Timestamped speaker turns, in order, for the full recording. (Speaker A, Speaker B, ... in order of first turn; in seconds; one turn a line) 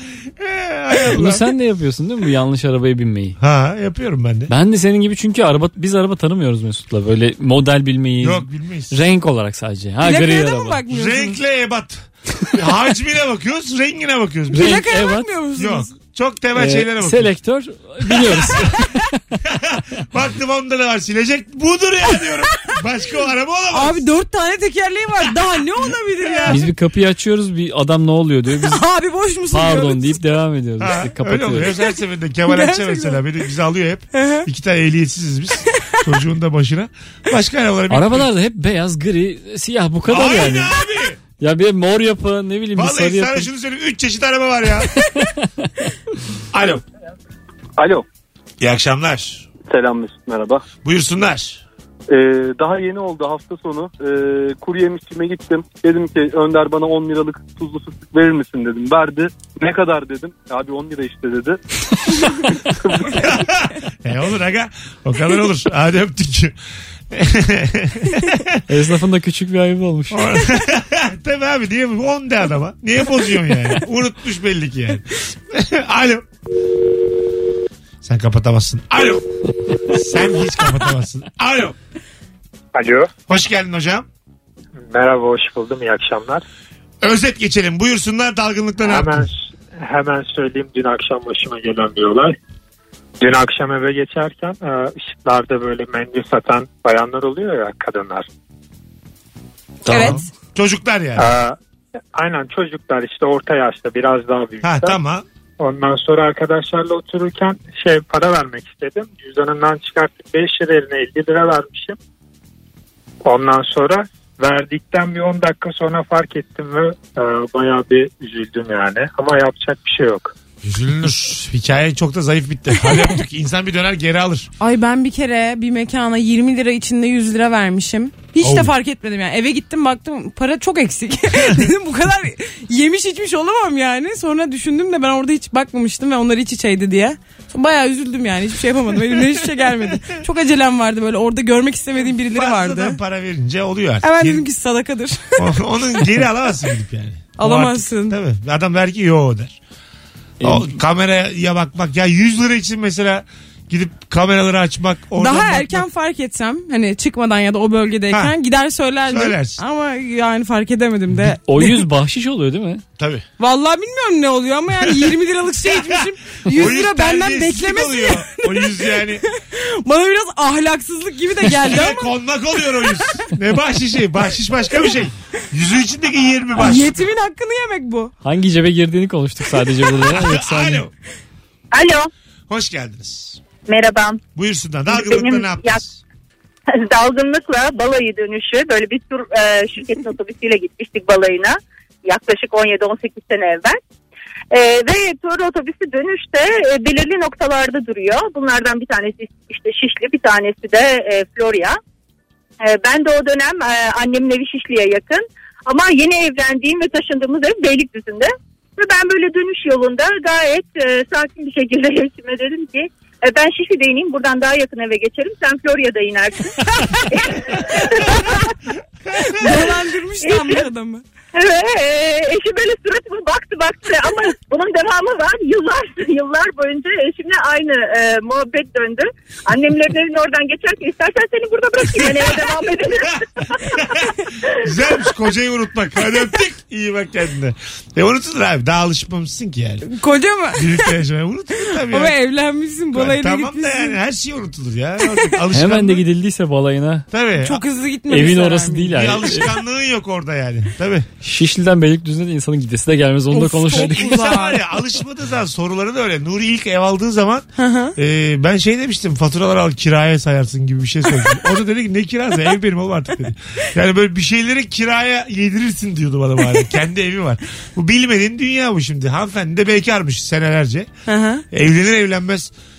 Speaker A: 0.4-1.4
Speaker B: 1.1-3.4
Speaker A: 3.4-4.5
Speaker B: 4.5-10.8
Speaker A: 8.2-9.0
Speaker C: 10.0-11.4
Speaker A: 10.9-14.8
Speaker B: 14.5-15.3
Speaker C: 14.5-15.9
Speaker A: 15.6-17.3
Speaker B: 16.5-19.2
Speaker A: 18.0-18.7
Speaker A: 19.4-24.1
Speaker C: 23.7-26.7
Speaker A: 25.9-26.6
Speaker B: 26.5-28.8
Speaker C: 28.6-30.2
Speaker B: 29.5-31.7
Speaker A: 30.8-38.3
Speaker C: 32.5-33.2
Speaker C: 34.1-34.5
Speaker B: 37.9-40.8
Speaker A: 40.1-41.2
Speaker B: 41.4-43.5
Speaker A: 42.7-44.9
Speaker B: 45.1-45.5
Speaker A: 46.5-46.8
Speaker D: 47.8-48.0
Speaker A: 48.6-49.5
Speaker D: 49.6-50.6
Speaker A: 50.8-51.6
Speaker D: 52.1-61.6
Speaker D: 62.7-63.2
Speaker A: 63.2-66.5
Speaker A: 67.1-68.6
Speaker B: 68.7-70.5
Speaker A: 70.1-76.2
Speaker A: 78.0-79.2
Speaker A: 79.8-81.8
Speaker E: 82.7-83.1
Speaker A: 83.3-84.0
Speaker E: 84.9-86.4
Speaker A: 87.0-89.2
Speaker E: 88.8-92.3
Speaker E: 93.2-98.3
Speaker B: 99.9-100.2
Speaker A: 99.9-101.3
Speaker C: 99.9-100.2
Speaker E: 101.2-101.6
Speaker E: 102.1-105.0
Speaker A: 104.6-105.2
Speaker E: 105.6-112.0
Speaker E: 113.2-120.3
Speaker A: 120.6-124.5
Speaker C: 124.6-143.0
Speaker A: 128.4-128.7
Speaker A: 142.3-144.4
Speaker C: 144.0-146.1
Speaker A: 145.4-149.6
Speaker C: 147.4-148.2
Speaker B: 150.4-150.8
Speaker A: 150.4-155.8
Speaker C: 155.2-161.8
Speaker A: 159.1-159.6
Speaker B: 161.4-162.8
Speaker A: 163.0-163.2
Speaker C: 163.4-172.1
Speaker A: 165.6-169.2
Speaker A: 171.6-177.0
Speaker C: 176.6-178.1
Speaker B: 178.2-180.8
Speaker A: 180.0-180.9
Speaker F: 181.7-182.1
Speaker A: 182.5-183.4
Speaker F: 183.7-184.2
Speaker A: 184.3-186.0
Speaker F: 184.9-185.8
Speaker F: 186.7-193.8
Speaker F: 194.5-201.8
Speaker F: 202.6-218.5
Speaker C: 219.2-221.0
Speaker A: 219.3-219.6
Speaker F: 220.2-220.6
Speaker F: 221.3-233.8
Speaker A: 233.1-239.9
Speaker C: 239.8-240.9
Speaker A: 240.5-242.2
Speaker C: 241.7-244.0
Speaker A: 242.9-246.0
Speaker B: 245.5-247.1
Speaker A: 247.1-247.6
Speaker C: 247.4-249.2
Speaker B: 248.1-249.5
Speaker A: 248.9-251.1
Speaker B: 251.2-254.4
Speaker C: 253.3-254.6
Speaker A: 253.7-270.9
Speaker C: 257.6-257.9
Speaker C: 271.1-271.4
Speaker A: 271.5-272.5